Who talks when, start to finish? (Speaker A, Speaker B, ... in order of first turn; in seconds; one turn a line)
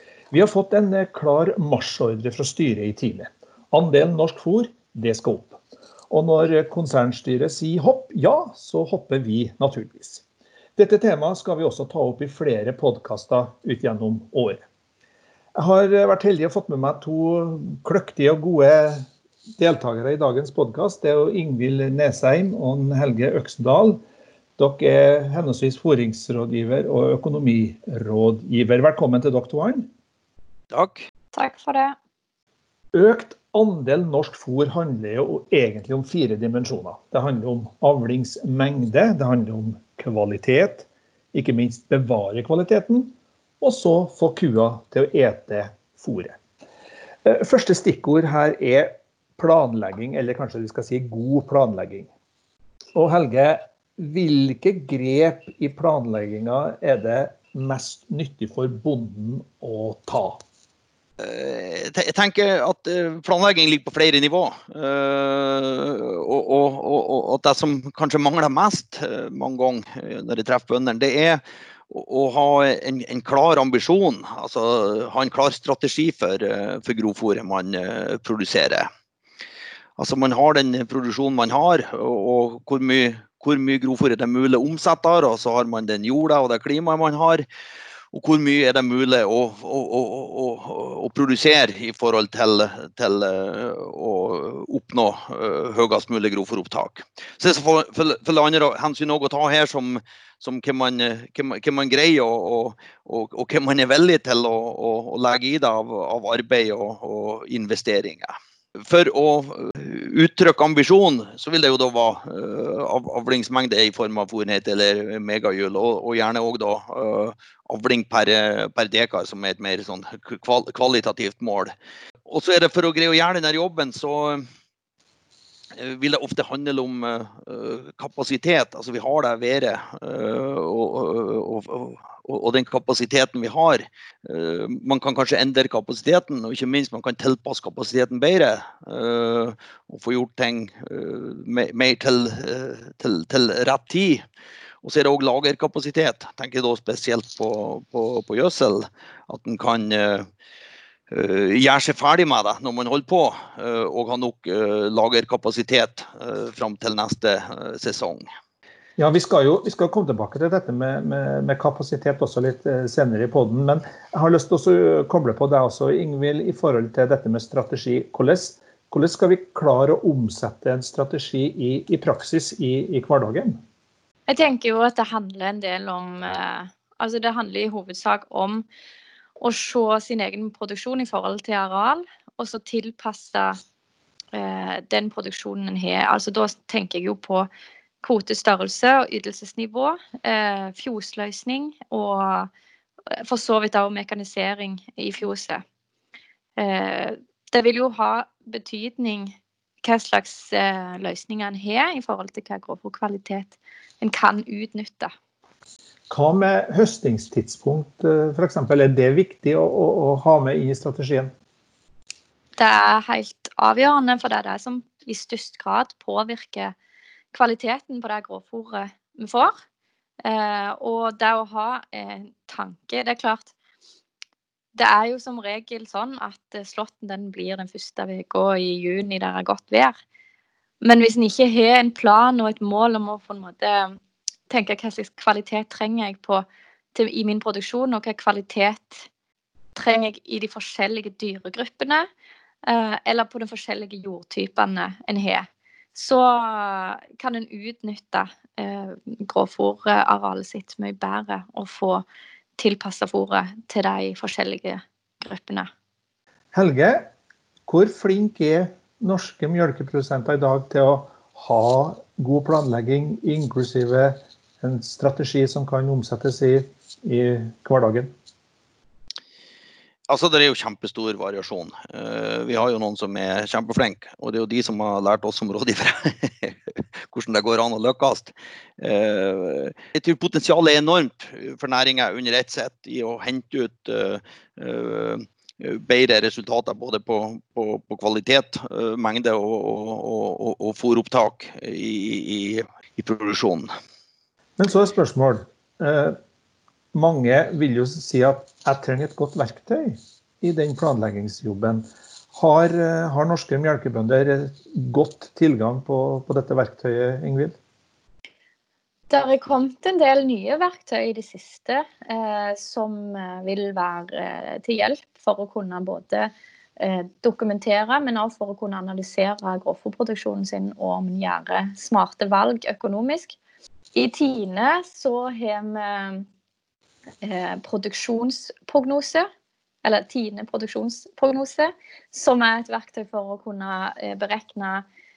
Speaker A: 0.3-5.6
Speaker A: 6.1-10.2
Speaker A: 10.8-14.6
Speaker A: 15.6-24.0
Speaker A: 24.6-29.9
Speaker B: 30.7-31.0
Speaker C: 31.3-31.9
Speaker A: 32.9-46.4
Speaker A: 47.2-52.1
Speaker A: 53.0-60.4
Speaker B: 61.2-78.9
Speaker B: 80.0-87.4
Speaker B: 88.1-121.7
Speaker B: 122.2-124.5
Speaker B: 125.7-144.2
Speaker B: 144.8-150.3
Speaker B: 151.1-158.3
Speaker A: 159.0-173.6
Speaker C: 174.3-178.7
Speaker C: 179.4-183.6
Speaker C: 184.3-187.5
Speaker C: 188.0-192.5
Speaker C: 193.1-195.6
Speaker C: 196.6-205.1
Speaker A: 206.1-211.3
Speaker C: 212.6-216.8
Speaker C: 217.3-219.6
Speaker C: 220.2-223.5
Speaker C: 224.8-230.0
Speaker C: 230.8-234.0
Speaker C: 234.5-239.1
Speaker C: 239.8-242.1
Speaker C: 242.7-252.0
Speaker C: 252.6-255.7
Speaker A: 256.5-257.1
Speaker A: 257.7-268.1
Speaker B: 270.1-276.6
Speaker B: 277.1-293.7
Speaker A: 294.6-296.2
Speaker A: 296.9-307.6
Speaker C: 309.1-323.4
Speaker C: 323.9-326.3
Speaker C: 327.2-329.3
Speaker C: 329.8-334.8